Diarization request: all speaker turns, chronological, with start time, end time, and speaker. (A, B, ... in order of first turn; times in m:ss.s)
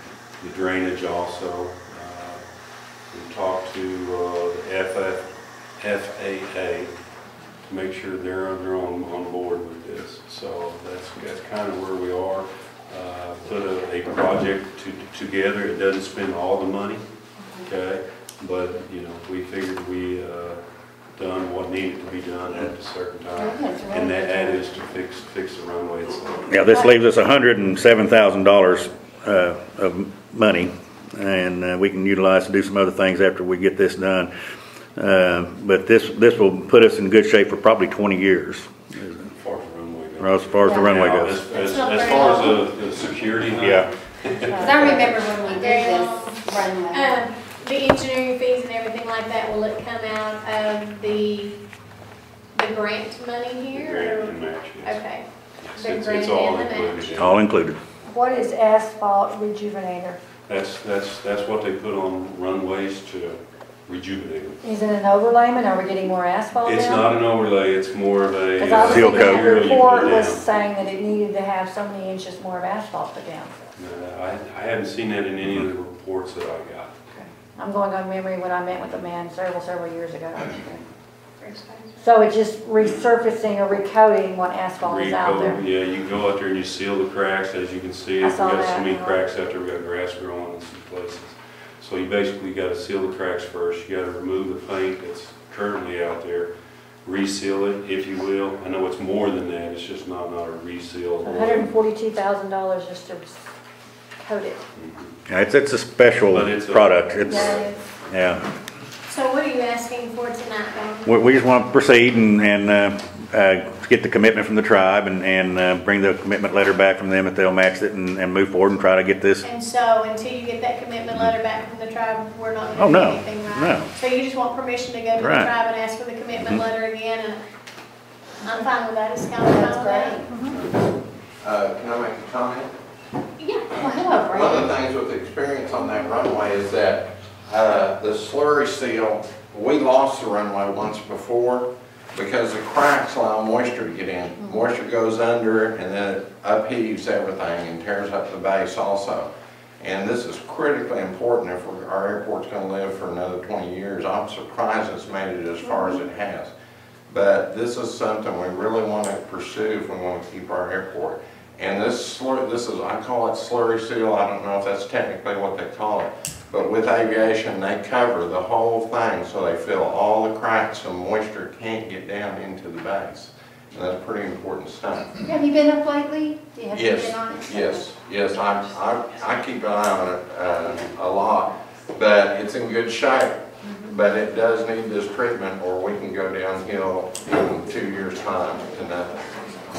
0:00.4-0:02.4 A
0:03.1-0:05.2 A
0:05.8-0:06.9 A
0:07.6-0:17.0 A
0:17.6-0:20.6 A
0:21.1-0:26.6 A
0:23.4-0:24.5 B
0:26.5-0:34.3 C
0:35.0-0:39.3 C
0:39.3-0:45.2 A
0:40.2-0:41.4 C
0:41.5-0:42.6 D
0:43.6-0:43.9 C
0:44.5-0:44.8 E
0:44.6-0:47.2 B
0:44.8-0:51.6 D
0:52.5-0:57.3 D
0:53.7-0:55.0 A
0:55.6-0:57.4 A
0:57.2-0:57.8 C
0:58.0-1:00.2 E
1:00.5-1:04.6 A
1:04.6-1:07.1 E
1:06.6-1:10.4 A
1:08.6-1:13.5 E
1:08.7-1:09.5 C
1:13.8-1:17.0 A
1:17.1-1:20.8 E
1:21.4-1:22.2 D
1:22.0-1:25.6 E
1:24.8-1:36.5 A
1:28.2-1:29.2 E
1:37.0-1:41.7 A
1:41.2-1:43.4 E
1:44.2-1:44.6 E
1:44.7-1:45.1 A
1:45.3-1:48.4 C
1:46.3-1:47.7 A
1:47.2-1:47.8 E
1:49.1-1:51.2 D
1:51.0-1:59.4 C
1:59.4-2:07.4 D
2:02.8-2:03.9 C
2:05.2-2:05.5 C
2:08.4-2:10.3 D
2:09.4-2:10.3 B
2:11.4-2:12.7 F
2:13.4-2:13.7 D
2:13.8-2:14.7 B
2:14.3-2:29.3 F
2:29.8-2:36.5 F
2:37.1-2:55.2 F
2:55.2-2:57.9 B
2:56.7-3:09.3 F
3:03.6-3:04.0 B